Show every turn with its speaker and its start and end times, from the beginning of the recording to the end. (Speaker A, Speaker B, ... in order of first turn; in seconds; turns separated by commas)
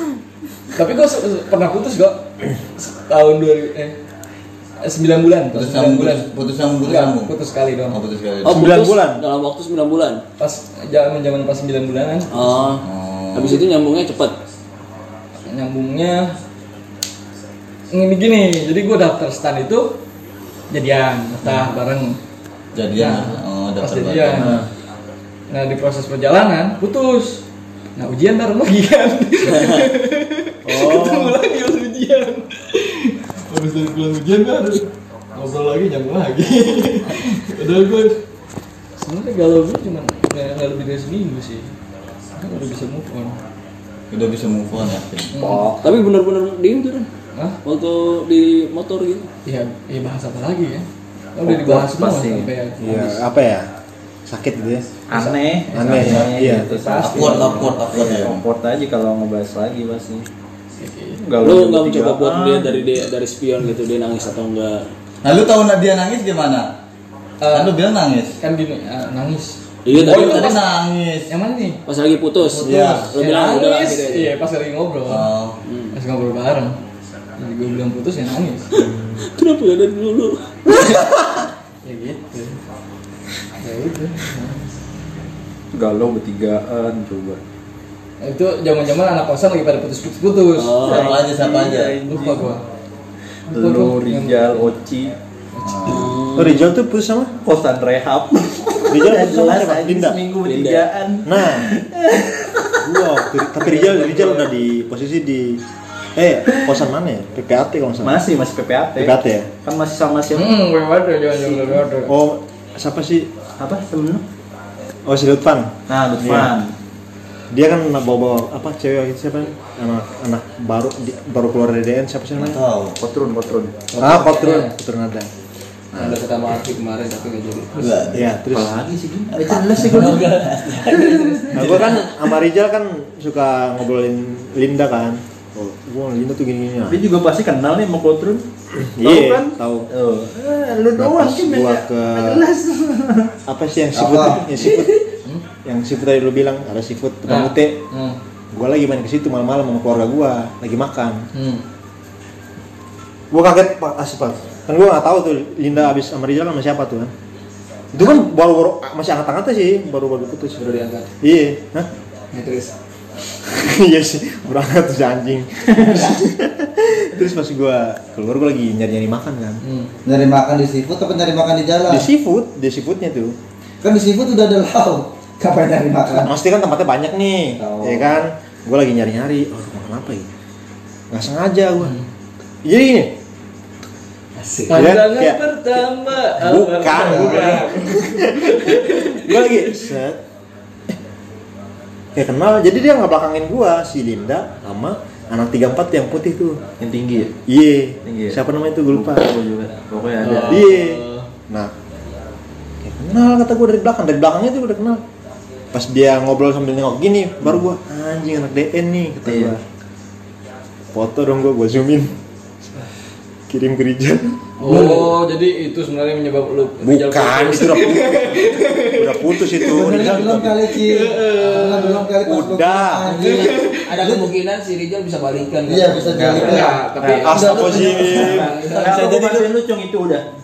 Speaker A: 0.7-4.0, Speaker A: 4.8-6.3, Speaker B: 5.5-7.3, Speaker A: 6.8-8.0, Speaker B: 7.9-8.7, Speaker C: 8.4-10.2, Speaker D: 8.5-9.2, Speaker A: 10.4-12.5, Speaker C: 12.3-14.4, Speaker B: 12.8-13.6, Speaker A: 15.5-16.3, Speaker A: 17.9-20.0, Speaker A: 20.7-22.2, Speaker B: 22.8-24.6, Speaker A: 23.0-24.6, Speaker D: 24.4-24.7, Speaker A: 25.5-27.4, Speaker A: 28.0-38.2, Speaker C: 29.4-29.9, Speaker D: 30.6-31.4, Speaker A: 39.0-41.7, Speaker A: 42.4-43.4, Speaker B: 44.1-45.3, Speaker A: 45.3-45.7, Speaker E: 45.4-46.0, Speaker C: 45.8-47.1, Speaker C: 47.6-49.3, Speaker A: 49.5-53.2, Speaker E: 51.4-52.5, Speaker D: 52.8-53.7, Speaker D: 54.3-54.9, Speaker E: 55.1-60.3, Speaker D: 55.7-56.7, Speaker B: 55.8-58.4, Speaker A: 56.6-57.8, Speaker A: 60.8-61.2, Speaker E: 61.2-62.9, Speaker C: 61.4-64.9, Speaker B: 65.2-66.7, Speaker A: 67.4-67.8, Speaker B: 67.5-68.4, Speaker A: 68.4-70.7, Speaker C: 69.8-70.5, Speaker B: 69.9-71.3, Speaker A: 71.3-71.8, Speaker C: 71.9-74.3, Speaker B: 72.4-73.1, Speaker A: 73.1-75.3, Speaker B: 75.1-75.6, Speaker C: 75.7-76.0, Speaker A: 75.9-76.8, Speaker A: 77.4-78.7, Speaker D: 78.7-79.3, Speaker C: 78.8-81.1, Speaker A: 81.8-82.6, Speaker A: 83.6-84.8, Speaker E: 85.7-87.4, Speaker A: 88.2-91.0, Speaker C: 90.6-91.3, Speaker E: 90.8-92.5, Speaker B: 90.8-92.0, Speaker A: 92.1-92.6, Speaker A: 93.5-94.7, Speaker E: 93.5-95.1, Speaker A: 95.5-96.1, Speaker B: 95.6-96.2, Speaker C: 95.9-96.7, Speaker D: 96.3-97.3, Speaker E: 97.4-102.8, Speaker D: 98.9-100.2, Speaker C: 100.4-100.9, Speaker D: 101.2-101.7, Speaker D: 102.8-105.6, Speaker E: 103.6-104.5, Speaker D: 106.2-108.2, Speaker E: 106.5-106.8, Speaker E: 108.0-110.6, Speaker D: 109.0-109.5, Speaker A: 110.3-112.1, Speaker E: 111.4-111.8, Speaker D: 112.1-113.3, Speaker E: 113.6-114.2, Speaker D: 115.0-116.5, Speaker E: 115.9-116.7, Speaker D: 117.5-122.6, Speaker B: 122.3-123.0, Speaker E: 123.0-123.9, Speaker C: 124.0-124.3, Speaker A: 124.0-124.7, Speaker D: 124.0-125.3, Speaker D: 125.9-126.2, Speaker C: 126.0-128.1, Speaker B: 127.8-128.3, Speaker D: 128.1-128.8, Speaker E: 128.4-131.8, Speaker B: 129.3-130.6, Speaker C: 129.8-132.1, Speaker D: 131.5-137.0, Speaker E: 136.9-143.3, Speaker D: 138.9-139.9, Speaker D: 141.0-142.5, Speaker D: 143.5-145.0, Speaker B: 143.9-144.7, Speaker D: 145.7-147.8, Speaker A: 147.3-148.2, Speaker D: 148.5-151.2, Speaker A: 151.3-151.7, Speaker D: 153.3-157.1, Speaker D: 157.9-160.7, Speaker C: 160.6-161.1, Speaker D: 161.2-161.9, Speaker C: 162.3-162.7, Speaker D: 163.5-169.6, Speaker A: 169.6-169.9, Speaker B: 170.1-172.1, Speaker D: 171.9-173.3, Speaker B: 173.8-176.3, Speaker D: 176.2-180.3, Speaker B: 177.6-178.2, Speaker D: 181.1-182.0, Speaker D: 182.7-183.1, Speaker A: 184.7-189.8, Speaker D: 184.7-190.2, Speaker D: 192.2-196.6, Speaker E: 196.8-197.3, Speaker D: 197.4-199.3, Speaker E: 198.1-200.8, Speaker A: 200.2-201.2, Speaker D: 200.5-201.7, Speaker D: 202.8-205.0, Speaker D: 205.7-209.6, Speaker E: 209.2-209.6, Speaker D: 210.9-212.2, Speaker D: 213.5-214.9, Speaker A: 214.6-220.0, Speaker C: 214.7-215.0, Speaker D: 216.8-220.6, Speaker B: 219.7-224.3, Speaker A: 220.7-222.0, Speaker D: 222.2-223.1, Speaker C: 223.1-226.7, Speaker A: 223.2-223.8, Speaker B: 225.7-226.8, Speaker E: 226.2-230.2, Speaker A: 226.3-228.7, Speaker D: 227.2-228.5, Speaker C: 227.8-228.8, Speaker B: 228.7-229.5